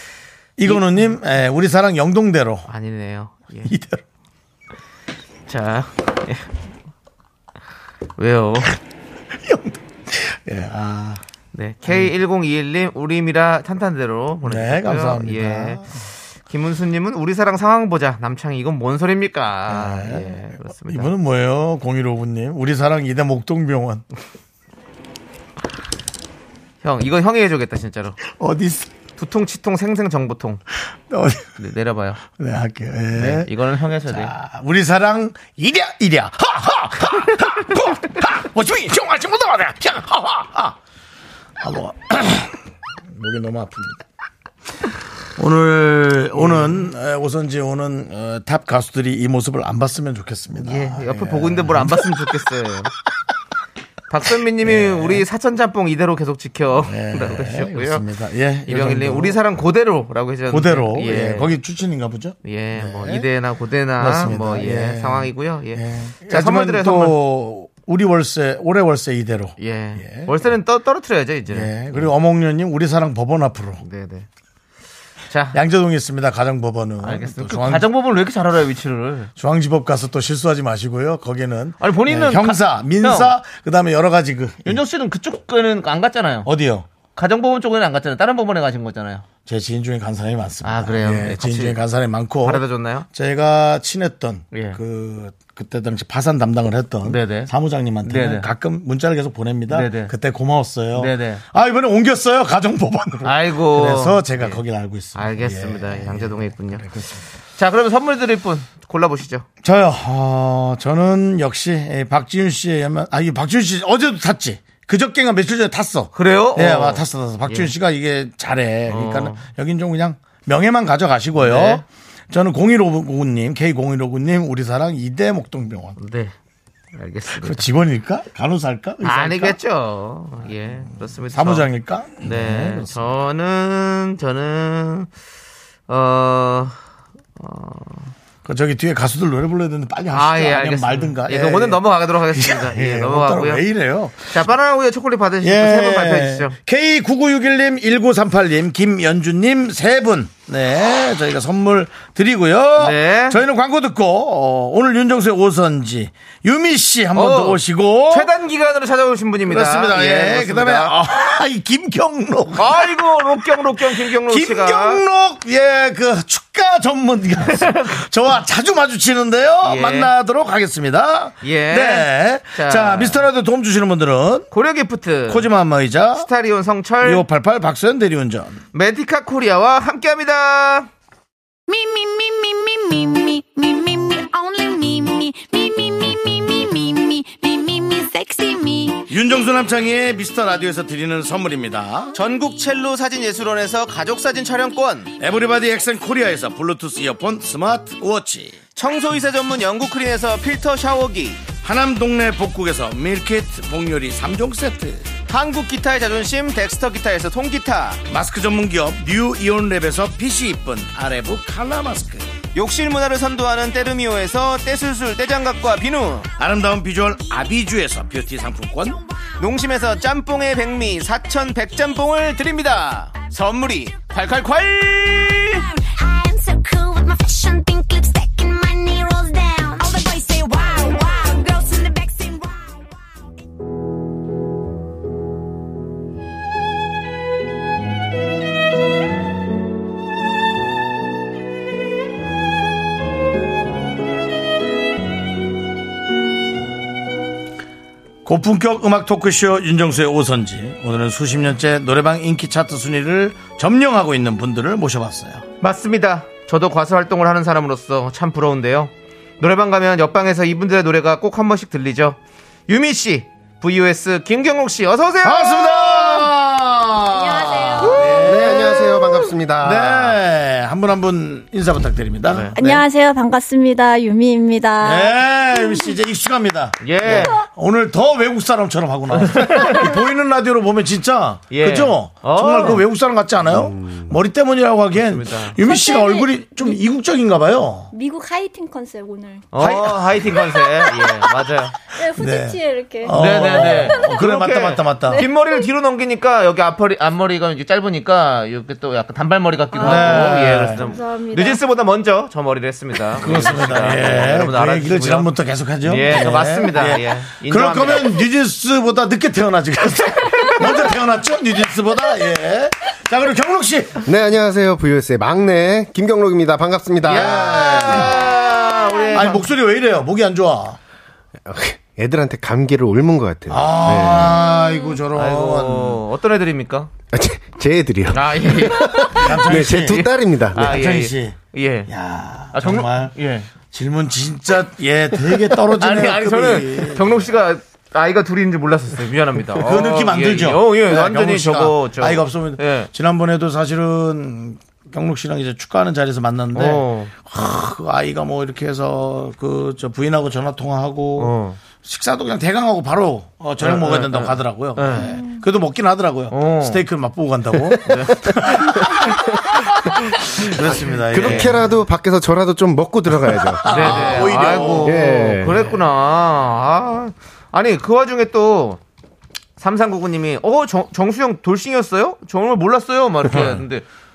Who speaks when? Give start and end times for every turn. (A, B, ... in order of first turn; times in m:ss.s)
0:00.6-0:02.7 A
0:00.6-0:01.0 B
0:02.7-0:03.7 B
0:03.6-0:04.0 A
0:05.5-0:06.5 B
0:08.2-0:08.8 B
0:09.3-0:11.2 A
0:11.5-0:15.8 B
0:11.9-0:12.1 A
0:14.4-0:15.9 A
0:16.5-0:21.1 B
0:19.7-0:24.0 A
0:26.8-0:28.2 B
0:28.2-0:28.9 A
0:29.2-0:30.6 B
0:31.1-0:31.6 A
0:31.6-0:32.2 B
0:32.3-0:33.5 A
0:33.1-0:34.3 B
0:34.1-0:40.8 A
0:41.6-0:44.0 A
0:45.4-0:52.4 A
0:46.4-0:46.7 B
0:50.6-0:52.9 B
0:54.1-0:58.0 B
0:54.6-0:55.2 A
0:56.8-0:59.4 A
0:58.7-1:01.5 B
1:00.5-1:03.2 A
1:02.4-1:07.2 B
1:04.0-1:10.3 A
1:09.6-1:12.1 B
1:11.5-1:13.8 A
1:13.8-1:14.3 B
1:15.3-1:15.6 B
1:15.5-1:17.9 A
1:17.0-1:19.3 B
1:19.4-1:24.8 A
1:21.8-1:23.3 B
1:24.6-1:26.5 B
1:26.4-1:26.9 A
1:27.1-1:29.2 B
1:29.4-1:47.2 A
1:30.6-1:31.8 B
1:32.4-1:33.0 B
1:34.5-1:34.8 B
1:37.0-1:37.5 B
1:38.0-1:38.5 B
1:39.7-1:40.1 B
1:40.9-1:41.4 B
1:43.2-1:44.6 B
1:45.1-1:46.9 B
1:47.6-1:49.4 B
1:49.6-2:06.0 A
1:56.1-1:57.7 B
1:58.9-1:59.5 B
2:01.4-2:01.8 B
2:06.0-2:06.3 B
2:06.9-2:07.7 B
2:07.3-2:09.6 A
2:09.0-2:11.7 B
2:11.3-2:13.1 A
2:12.2-2:15.1 B
2:15.9-2:16.8 B
2:17.4-2:18.1 B
2:18.4-2:24.4 A
2:20.1-2:23.6 B
2:24.3-2:26.5 B
2:25.4-2:38.3 A
2:32.8-2:33.4 B
2:37.1-2:41.0 B
2:39.5-2:54.5 A
2:42.6-2:45.0 B
2:47.4-2:48.0 B
2:49.6-2:50.1 B
2:51.4-2:53.2 B
2:54.5-2:55.5 B
2:55.3-2:56.3 A
2:56.2-2:57.2 B
2:57.0-2:58.6 A
2:58.7-3:00.9 B
3:01.7-3:09.1 C
3:09.1-3:12.1 A
3:12.1-3:15.1 B
3:15.2-3:18.6 A
3:18.8-3:21.4 B
3:21.6-3:25.1 A
3:25.3-3:28.0 B
3:28.1-3:32.3 A
3:32.5-3:36.3 B
3:36.4-3:39.0 A
3:39.4-3:45.6 B
3:45.6-3:53.2 C
4:08.2-4:15.4 A
4:15.6-4:26.3 B
4:25.2-4:32.8 A
4:27.2-4:28.2 D
4:28.1-4:30.2 E
4:32.6-4:35.9 D
4:34.8-4:47.9 A
4:36.8-4:37.4 B
4:39.1-4:39.9 B
4:41.5-4:42.8 B
4:43.5-4:44.1 E
4:45.0-4:45.6 B
4:45.6-4:46.8 D
4:47.9-4:49.7 D
4:49.5-4:51.7 B
4:49.6-4:50.1 A
4:51.9-4:53.8 D
4:52.1-4:55.2 A
4:53.1-5:05.3 B
4:55.1-4:55.6 D
4:59.7-5:01.6 D
4:59.8-5:00.8 A
5:03.2-5:14.0 A
5:05.8-5:08.2 B
5:14.0-5:17.8 E
5:17.1-5:19.4 B
5:17.1-5:18.3 A
5:19.1-5:20.8 A
5:21.4-5:24.4 E
5:23.5-5:26.0 A
5:25.1-5:26.9 B
5:27.1-5:30.7 E
5:28.1-5:31.9 B
5:29.1-5:37.2 A
5:32.5-5:33.5 B
5:35.7-5:42.9 B
5:39.5-6:01.7 A
5:46.5-5:47.1 B
5:51.2-5:51.6 B
5:53.6-5:55.1 B
5:56.3-5:56.8 B
5:57.8-5:58.5 B
6:00.9-6:04.1 E
6:01.1-6:01.5 B
6:03.3-6:05.7 A
6:03.6-6:08.8 B
6:04.8-6:05.6 E
6:09.6-6:13.8 B
6:13.2-6:13.6 A